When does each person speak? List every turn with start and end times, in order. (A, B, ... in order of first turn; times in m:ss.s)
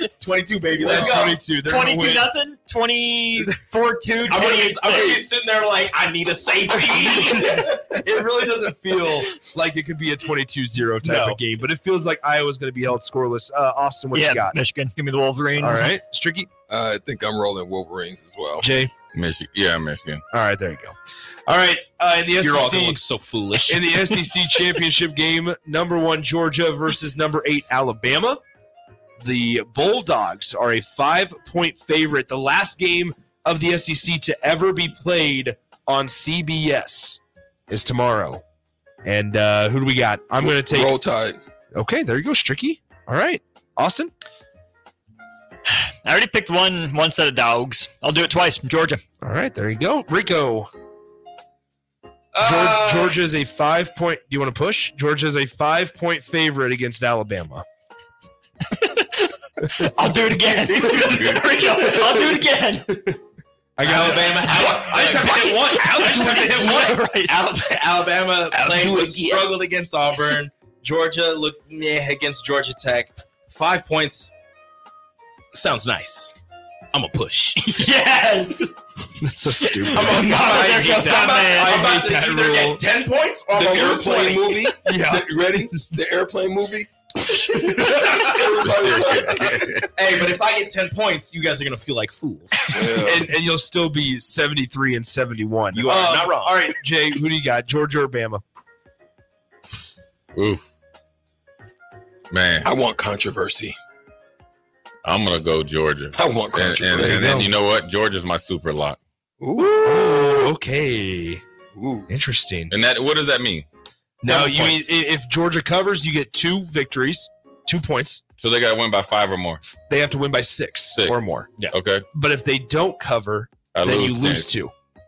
0:00.2-0:01.5 A
0:00.8-0:01.2 B
0:00.8-0:02.3 C
0:01.6-0:05.3 D
0:04.3-0:08.8 A
0:07.2-0:14.6 C
0:11.0-0:11.4 A
0:14.1-0:15.9 D
0:15.6-0:16.5 C
0:16.7-0:18.7 B
0:18.6-0:18.9 C
0:19.1-0:20.2 E
0:20.3-0:21.0 C
0:21.5-0:23.0 C
0:22.4-0:24.2 A
0:23.6-0:28.4 C
0:29.2-0:38.4 C
0:39.0-0:40.9 C
0:40.4-0:41.4 B
0:41.7-0:44.1 C
0:46.0-0:49.0 D
0:49.2-0:50.7 C
0:52.3-0:53.2 A
0:52.4-0:57.6 C
0:58.7-1:03.2 D
1:03.8-1:06.7 C
1:03.8-1:14.3 A
1:05.4-1:07.4 D
1:08.5-1:09.4 D
1:15.5-1:16.4 A
1:16.9-1:17.8 A
1:17.7-1:18.7 D
1:19.2-1:22.8 C
1:19.8-1:21.9 D
1:19.9-1:24.7 A
1:23.5-1:26.9 B
1:24.8-1:25.8 C
1:27.8-1:29.1 A
1:27.9-1:29.6 B
1:28.6-1:30.1 E
1:29.9-1:32.9 A
1:32.7-1:33.3 B
1:32.8-1:38.4 C
1:35.7-1:36.7 A
1:40.3-1:40.6 E
1:42.3-1:42.7 E
1:42.6-1:43.8 B
1:45.0-1:49.0 E
1:46.1-1:47.5 B
1:47.0-1:47.5 C
1:49.4-1:49.7 B
1:49.5-1:51.4 C
1:51.7-1:52.1 B
1:52.1-1:52.7 C
1:52.7-1:53.7 E
1:54.2-1:58.2 C
1:54.3-1:54.9 A
1:58.4-1:59.6 E
1:59.6-2:01.5 C
2:01.0-2:02.0 E
2:02.1-2:04.7 C
2:03.7-2:04.5 E